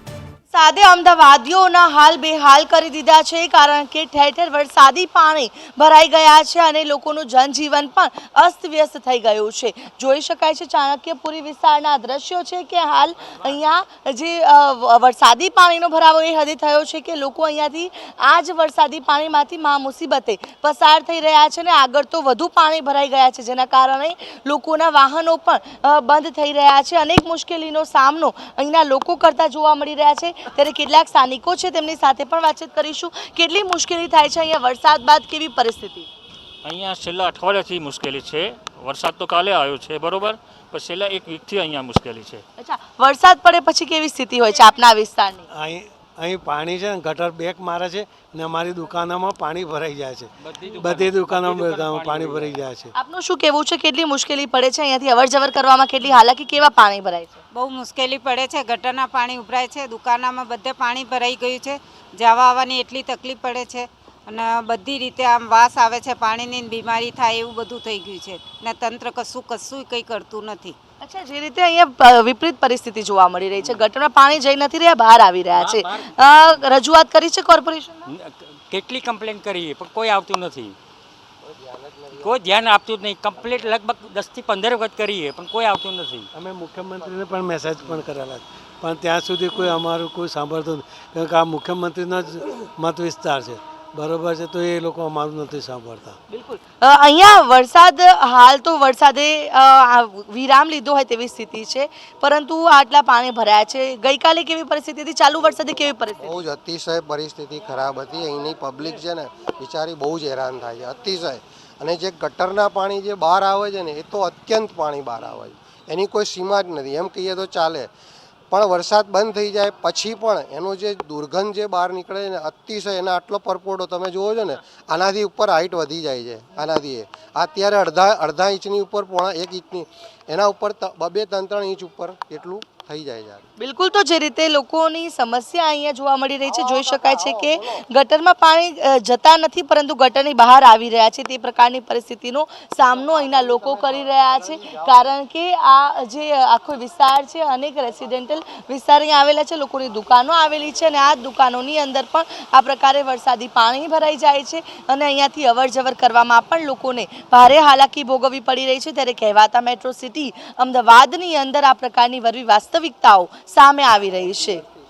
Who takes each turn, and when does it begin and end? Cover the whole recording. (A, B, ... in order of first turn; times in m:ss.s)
0:00.5-0:36.1 A
0:36.6-0:42.4 B
0:42.6-0:45.4 A
0:45.5-0:52.9 C
0:50.4-0:52.6 D
0:53.0-0:57.4 A
0:57.5-1:10.8 E
1:11.0-1:18.0 A
1:13.6-1:13.9 D
1:15.5-1:16.6 D
1:18.1-1:20.8 D
1:21.4-1:22.3 F
1:22.2-1:26.3 D
1:26.4-1:36.2 C
1:36.3-1:46.4 A
1:46.2-1:57.9 F
1:58.5-2:13.4 F
2:13.6-2:44.6 A